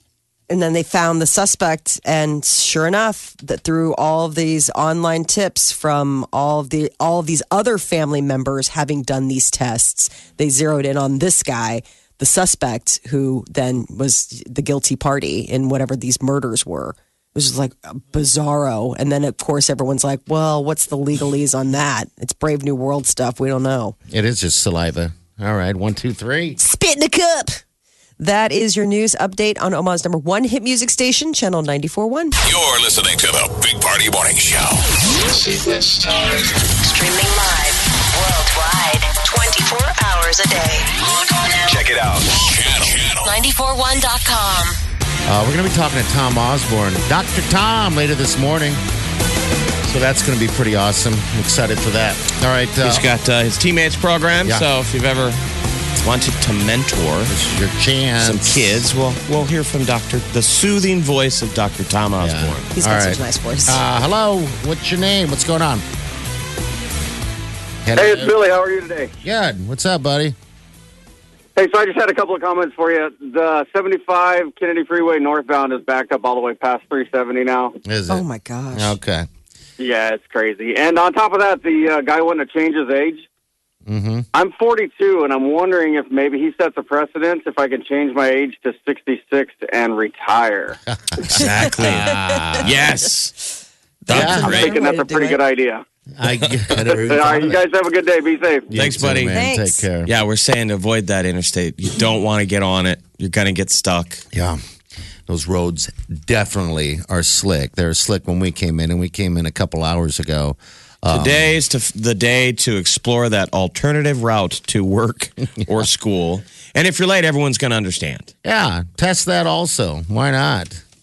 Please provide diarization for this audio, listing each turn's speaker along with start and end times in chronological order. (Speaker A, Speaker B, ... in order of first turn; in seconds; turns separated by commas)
Speaker A: 0.5-24.0, Speaker B: 24.1-26.6, Speaker A: 26.6-27.6, Speaker A: 28.2-32.4, Speaker C: 32.4-36.4, Speaker D: 36.8-41.8, Speaker C: 41.7-43.3, Speaker D: 43.2-44.8, Speaker B: 45.3-48.8, Speaker B: 49.9-53.1, Speaker E: 52.8-55.4, Speaker E: 56.0-57.3, Speaker B: 57.3-58.9, Speaker E: 58.2-62.7, Speaker B: 62.2-65.8, Speaker A: 62.8-63.8, Speaker B: 67.8-68.3, Speaker F: 68.0-69.1, Speaker B: 69.2-70.4, Speaker F: 71.6-77.8, Speaker B: 77.8-79.3, Speaker A: 78.1-79.0, Speaker F: 79.8-83.2, Speaker B: 83.9-84.3, Speaker F: 84.3-90.8, Speaker B: 91.1-92.7, Speaker E: 91.3-93.3, Speaker A: 92.0-92.4, Speaker A: 94.1-95.4, Speaker E: 94.1-94.8, Speaker B: 94.1-94.5, Speaker F: 94.2-95.8, Speaker B: 96.2-97.6, Speaker F: 96.8-98.7, Speaker B: 98.7-100.1, Speaker E: 98.7-99.4, Speaker A: 99.3-99.8, Speaker E: 100.0-104.2, Speaker B: 104.3-104.6, Speaker B: 105.3-111.5, Speaker E: 111.1-118.3, Speaker B: 118.4-120.8